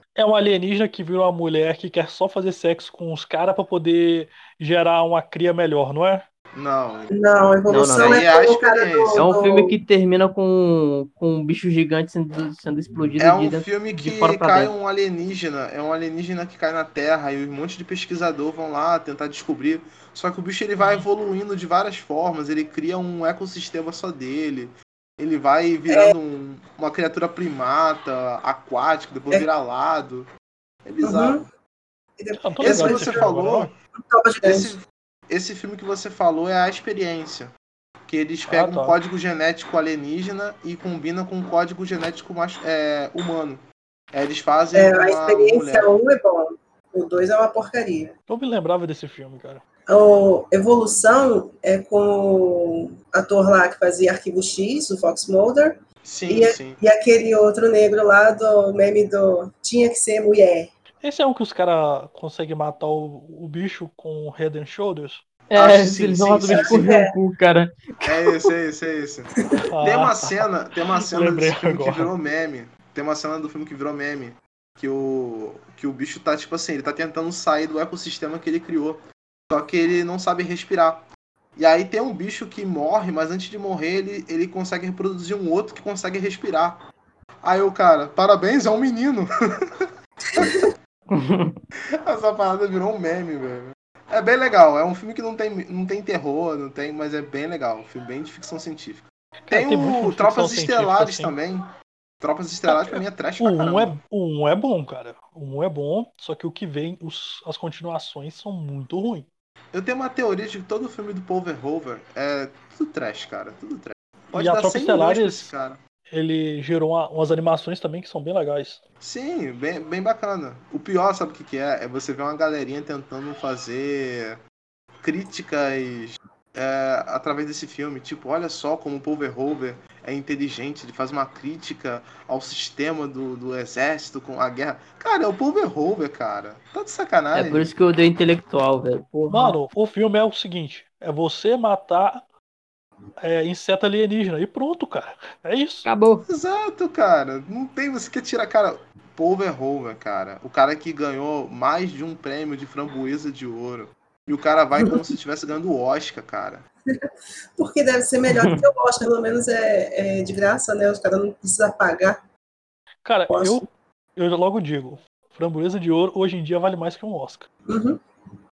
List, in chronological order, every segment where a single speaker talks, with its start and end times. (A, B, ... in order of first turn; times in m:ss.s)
0:00.2-0:06.2 A
0:06.5-0:07.1 B
0:07.1-0:09.8 C
0:07.7-0:08.2 D
0:08.0-0:09.2 B
0:09.2-0:14.7 D
0:13.2-0:30.3 B
0:30.8-0:31.4 B
0:31.0-0:31.5 C
0:32.2-0:33.3 C
0:32.4-0:33.7 A
0:32.6-0:33.7 B
0:34.0-0:34.8 C
0:34.4-0:37.5 B
0:38.1-0:45.9 B
0:38.5-0:39.0 A
0:44.7-0:48.1 C
0:48.3-0:49.6 A
0:49.9-1:00.7 C
0:56.0-0:56.8 B
1:01.0-1:05.2 A
1:05.5-1:08.4 D
1:05.5-1:06.9 B
1:06.4-1:07.1 C
1:08.0-1:09.3 B
1:09.7-1:10.5 A
1:09.8-1:26.8 B
1:11.0-1:12.1 A
1:27.4-1:30.7 B
1:30.4-1:30.7 C
1:31.1-1:31.6 D
1:31.9-1:41.6 B
1:39.5-1:41.4 A
1:42.2-1:44.0 B
1:42.7-1:49.3 A
1:49.7-1:55.8 B
1:54.3-1:55.5 A
1:56.1-1:58.8 A
1:59.0-2:04.4 B
2:05.0-2:17.7 B
2:17.3-2:19.6 D
2:19.3-2:22.2 A
2:23.2-2:25.9 A
2:25.8-2:26.3 D
2:26.3-2:36.6 B
2:37.0-2:42.2 C
2:38.3-2:38.6 D
2:43.0-2:47.4 A
2:43.3-2:43.6 C
2:47.7-2:48.0 C